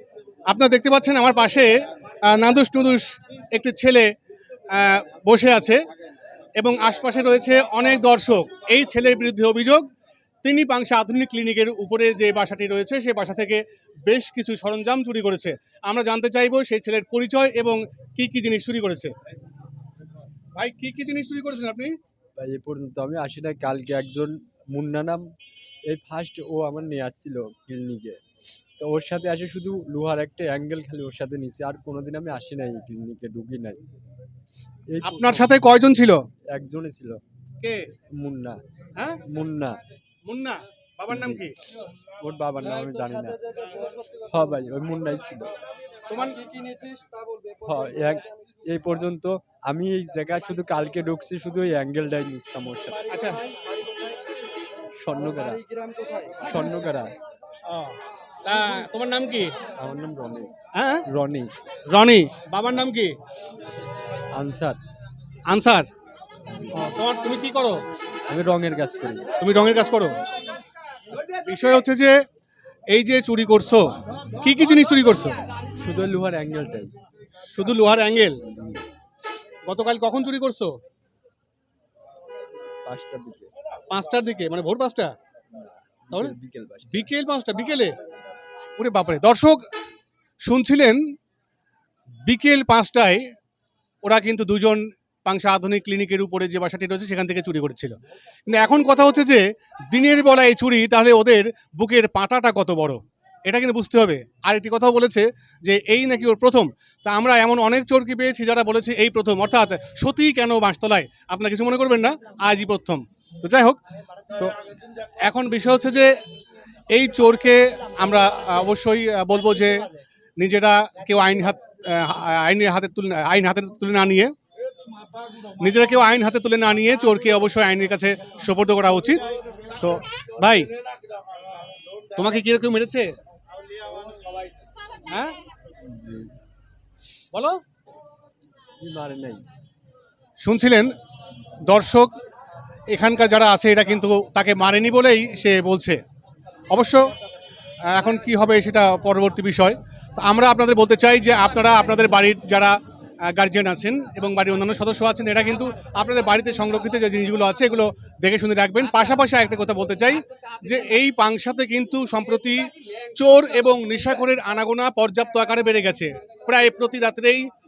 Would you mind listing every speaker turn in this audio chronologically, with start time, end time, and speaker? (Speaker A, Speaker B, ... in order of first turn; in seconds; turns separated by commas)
Speaker A: 0.5-1.7, Speaker A: 2.3-4.1, Speaker A: 4.7-5.8, Speaker A: 6.6-9.9, Speaker A: 10.4-19.1, Speaker A: 20.6-21.9, Speaker B: 22.4-25.2, Speaker B: 25.9-28.2, Speaker B: 28.8-33.8, Speaker B: 34.9-35.6, Speaker A: 35.0-36.2, Speaker B: 36.5-37.2, Speaker B: 38.2-38.6, Speaker B: 39.3-39.8, Speaker A: 40.3-41.5, Speaker B: 41.1-41.5, Speaker B: 42.2-43.4, Speaker B: 44.3-45.5, Speaker A: 46.1-46.4, Speaker B: 47.6-53.2, Speaker A: 53.1-53.5, Speaker B: 55.0-57.1, Speaker A: 57.7-59.5, Speaker B: 59.8-60.5, Speaker A: 60.8-61.0, Speaker B: 61.1-61.5, Speaker A: 61.9-63.1, Speaker B: 64.3-64.8, Speaker A: 65.5-65.9, Speaker A: 66.7-67.8, Speaker B: 68.3-69.4, Speaker A: 69.4-70.2, Speaker A: 71.4-72.2, Speaker A: 72.9-73.9, Speaker A: 74.4-75.4, Speaker B: 75.8-76.9, Speaker A: 77.5-78.4, Speaker A: 79.7-80.8, Speaker B: 82.9-83.5, Speaker A: 83.9-85.1, Speaker B: 85.6-87.1, Speaker A: 86.9-87.9, Speaker A: 88.8-89.6, Speaker A: 90.4-91.0, Speaker A: 92.3-93.2, Speaker A: 94.0-98.0, Speaker A: 98.5-113.8, Speaker A: 115.2-116.1, Speaker A: 116.9-119.9, Speaker A: 120.4-124.3, Speaker A: 125.6-129.2, Speaker A: 129.8-130.7, Speaker A: 132.2-133.1, Speaker A: 135.1-135.3, Speaker B: 135.8-136.3, Speaker A: 137.3-137.6, Speaker B: 138.8-139.5, Speaker A: 140.4-140.9, Speaker A: 141.7-142.1, Speaker A: 142.9-146.0, Speaker A: 146.7-147.1, Speaker A: 147.9-152.8, Speaker A: 153.3-162.6, Speaker A: 163.2-167.5